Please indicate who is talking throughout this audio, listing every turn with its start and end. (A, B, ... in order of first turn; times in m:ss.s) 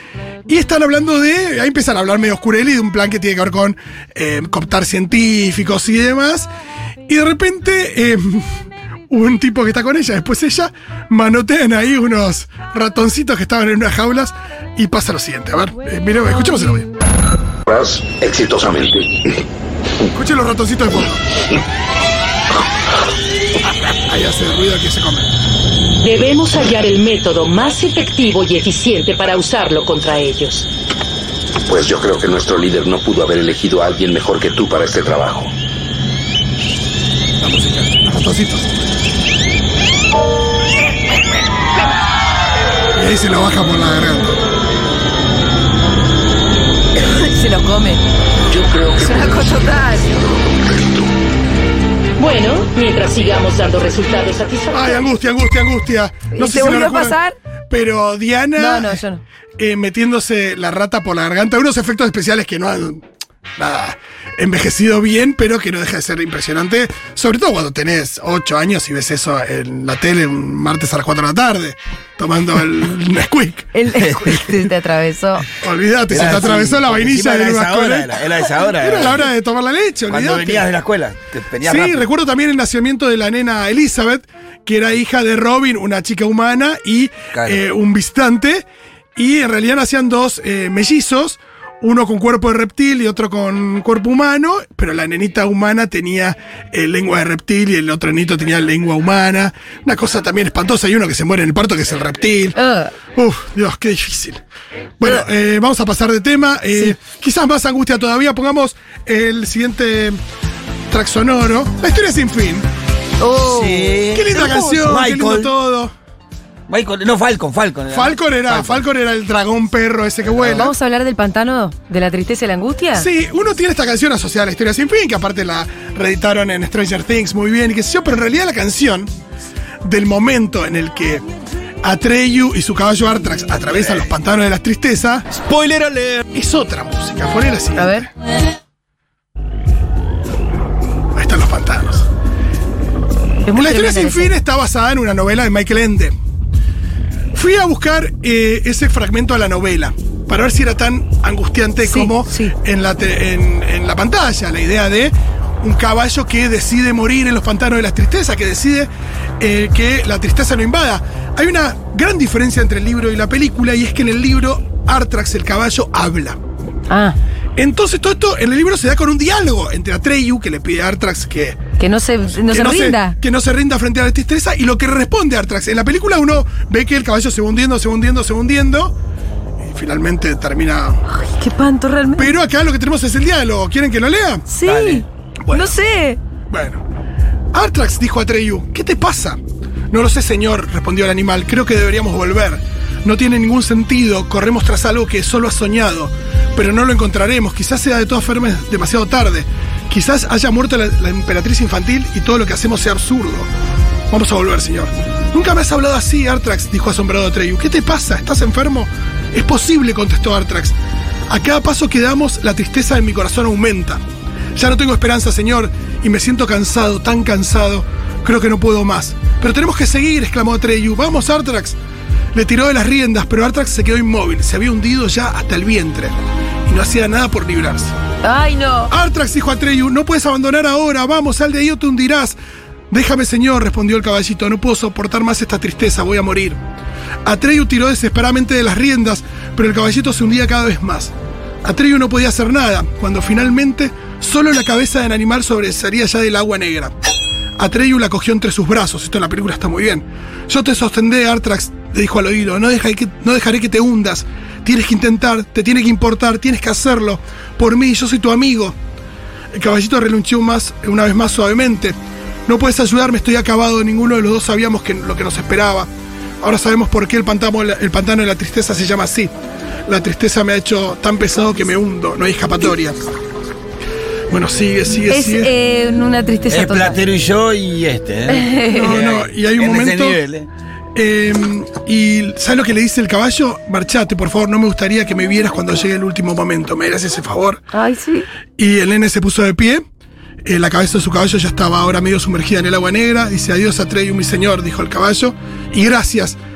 0:00.5-0:06.5 A
0:07.1-0:08.5 A
0:09.1-0:16.9 A
0:17.7-0:19.4 B
0:20.1-0:21.2 A
0:24.0-0:25.3 A
0:26.0-0:30.7 C
0:31.7-0:35.5 B
0:37.4-0:38.8 A
0:42.9-0:44.4 A
0:47.1-0:48.0 D
0:48.5-0:49.6 B
0:48.9-0:50.2 D
0:50.3-0:51.1 B
0:52.2-0:55.1 C
0:54.7-0:57.2 A
0:56.3-0:57.4 D
0:57.7-0:59.0 A
0:58.6-0:59.2 D
0:59.6-1:13.7 A
1:13.7-1:15.5 D
1:15.6-1:20.7 A
1:16.1-1:19.3 E
1:20.1-1:22.0 E
1:21.6-1:28.6 A
1:27.3-1:27.6 E
1:29.2-1:42.6 A
1:42.6-1:42.9 D
1:43.2-1:44.4 A
1:45.0-1:50.2 A
1:50.9-1:52.7 A
1:53.2-1:54.8 D
1:53.5-1:55.5 E
1:54.1-1:55.9 A
1:56.7-1:58.8 E
1:57.9-2:00.7 A
2:00.5-2:03.1 D
2:03.0-2:09.1 A
2:09.8-2:11.2 A
2:11.8-2:15.3 A
2:15.5-2:16.2 E
2:16.3-2:18.1 A
2:17.8-2:18.1 D
2:21.2-2:22.1 A
2:23.5-2:24.3 D
2:23.5-2:26.2 A
2:27.3-2:46.4 A
2:31.8-2:32.5 D
2:46.9-2:47.2 D
2:47.6-2:51.6 A
2:51.8-2:53.2 D
2:52.2-2:58.9 A
2:59.6-3:01.0 A
3:01.1-3:02.3 D
3:02.2-3:04.4 A
3:04.5-3:06.2 D
3:04.6-3:05.0 E
3:05.4-3:05.8 A
3:06.5-3:06.8 A
3:07.5-3:23.5 A
3:24.1-3:30.8 A
3:31.3-3:34.0 A
3:34.6-3:41.8 A
3:42.3-3:47.9 A
3:48.2-3:48.9 D
3:48.9-3:52.4 A
3:52.9-3:56.6 A
3:57.2-4:01.1 A
4:01.6-4:06.9 A
4:07.6-4:18.8 A
4:19.5-4:29.3 A
4:29.9-4:33.1 A
4:34.3-4:35.5 A
4:35.1-4:37.0 D
4:36.5-4:40.5 E
4:38.3-4:39.0 D
4:38.7-4:40.2 A
4:41.0-4:47.6 A
4:47.7-4:48.3 D
4:48.6-4:49.9 A
4:50.4-4:56.4 A